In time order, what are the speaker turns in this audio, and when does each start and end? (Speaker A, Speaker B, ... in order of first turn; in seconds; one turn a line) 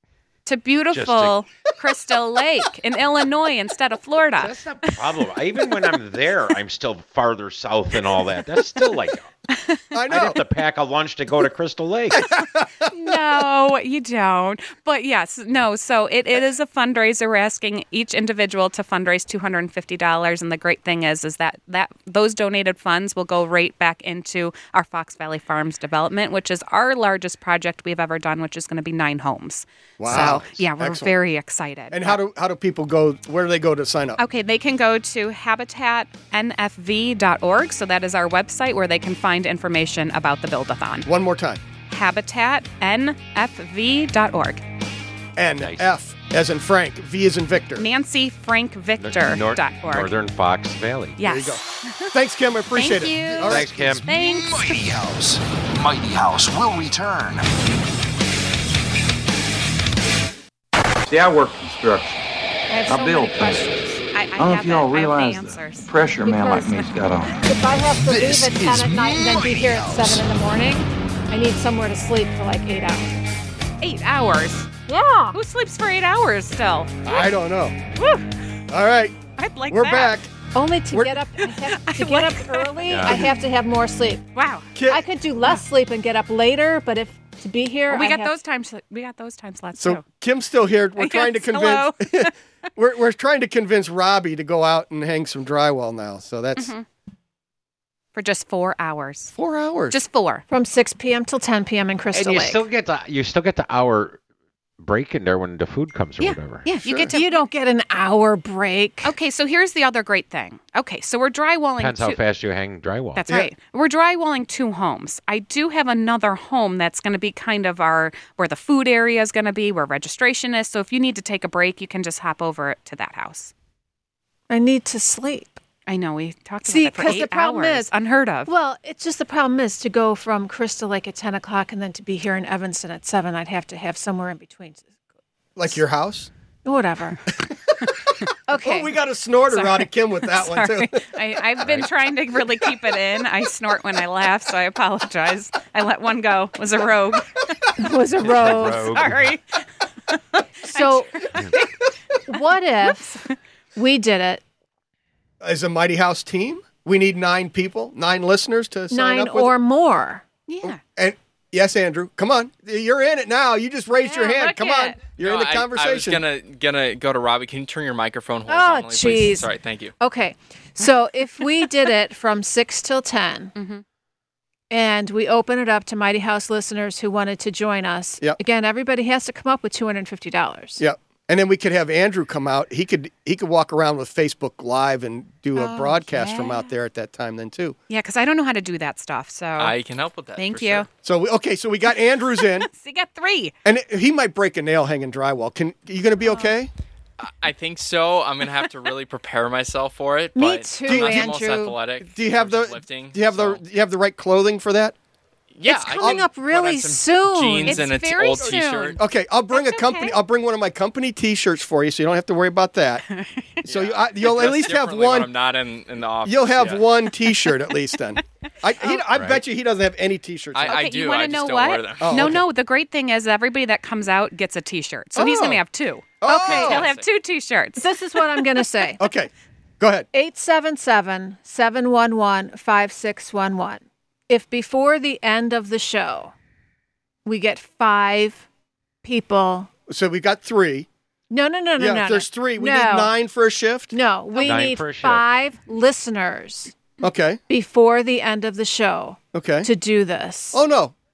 Speaker A: 0.5-5.0
Speaker B: 0.9-1.4
Speaker B: 4.4-9.3
Speaker A: 9.5-9.8
Speaker C: 9.9-10.4
Speaker B: 10.1-12.3
Speaker C: 12.1-13.1
Speaker A: 12.9-32.2
Speaker C: 30.0-31.1
Speaker C: 31.9-34.2
Speaker A: 34.2-41.1
Speaker C: 41.1-41.6
Speaker A: 41.9-44.6
Speaker C: 45.4-47.9
Speaker B: 45.6-45.9
Speaker A: 47.8-50.1
Speaker B: 49.0-51.2
Speaker A: 51.2-52.1
Speaker C: 51.2-54.0
Speaker A: 52.7-54.8
Speaker B: 53.5-54.1
Speaker D: 54.0-57.5
Speaker E: 61.1-62.2
Speaker F: 62.7-64.0
Speaker A: 62.7-67.0
Speaker E: 62.9-63.8
Speaker E: 64.4-67.5
Speaker F: 66.2-73.2
Speaker D: 68.0-70.2
Speaker A: 73.8-74.7
Speaker F: 74.9-75.4
Speaker A: 75.3-77.2
Speaker C: 77.0-77.8
Speaker A: 78.0-78.3
Speaker C: 78.7-79.2
Speaker A: 79.4-80.2
Speaker C: 79.7-80.4
Speaker F: 80.5-84.3
Speaker C: 80.9-81.2
Speaker A: 81.4-82.8
Speaker B: 82.9-83.2
Speaker A: 84.3-84.7
Speaker C: 84.8-85.0
Speaker F: 84.9-88.3
Speaker A: 87.9-90.0
Speaker C: 89.8-96.7
Speaker A: 91.0-92.3
Speaker A: 96.6-96.9
Speaker A: 98.2-99.3
Speaker C: 99.3-100.0
Speaker A: 99.9-100.4
Speaker F: 100.5-102.6
Speaker B: 102.1-104.2
Speaker B: 104.8-106.7
Speaker A: 106.2-107.4
Speaker C: 106.8-107.1
Speaker F: 107.1-109.1
Speaker A: 109.0-112.2
Speaker B: 111.8-113.3
Speaker A: 113.2-123.5
Speaker F: 124.5-125.6
Speaker A: 125.9-128.5
Speaker F: 126.7-127.9
Speaker F: 128.5-134.9
Speaker C: 135.6-136.3
Speaker F: 136.7-137.2
Speaker C: 137.4-141.2
Speaker F: 138.5-138.9
Speaker A: 139.5-147.6
Speaker F: 147.8-148.9
Speaker B: 148.2-149.3
Speaker A: 148.4-151.7
Speaker F: 150.7-151.3
Speaker F: 152.3-153.2
Speaker F: 153.8-154.4
Speaker C: 155.4-159.5
Speaker F: 158.9-160.2
Speaker A: 160.5-160.8
Speaker C: 160.7-166.2
Speaker A: 164.0-165.0
Speaker G: 165.2-170.0
Speaker F: 168.5-173.5
Speaker A: 173.6-173.8
Speaker F: 174.7-180.8
Speaker C: 180.8-187.8
Speaker A: 185.6-186.7
Speaker A: 187.9-189.8
Speaker G: 189.6-190.9
Speaker A: 190.4-190.9
Speaker C: 191.0-192.7
Speaker A: 192.4-193.5
Speaker C: 193.7-196.7
Speaker G: 197.2-203.6
Speaker F: 200.3-201.8
Speaker C: 200.9-201.4
Speaker C: 202.1-204.9
Speaker G: 205.5-209.0
Speaker F: 205.7-207.9
Speaker C: 206.0-206.2
Speaker A: 207.7-209.0
Speaker C: 209.0-213.0
Speaker A: 209.5-210.2
Speaker A: 213.1-213.7
Speaker G: 213.7-217.0
Speaker C: 213.7-215.3
Speaker C: 216.2-220.8
Speaker B: 219.1-219.4
Speaker G: 220.5-222.4
Speaker A: 220.6-227.9
Speaker C: 222.0-222.4
Speaker C: 225.2-225.6
Speaker C: 226.2-226.9
Speaker G: 226.3-227.1
Speaker F: 227.8-229.0
Speaker C: 229.0-230.1
Speaker F: 230.1-236.3
Speaker F: 237.2-238.5
Speaker F: 239.0-239.7
Speaker C: 239.9-240.9
Speaker F: 241.3-243.1
Speaker C: 241.8-244.0
Speaker F: 243.9-246.8
Speaker B: 244.4-245.2
Speaker C: 247.0-247.4
Speaker F: 247.5-250.6
Speaker C: 249.3-249.7
Speaker C: 250.5-250.9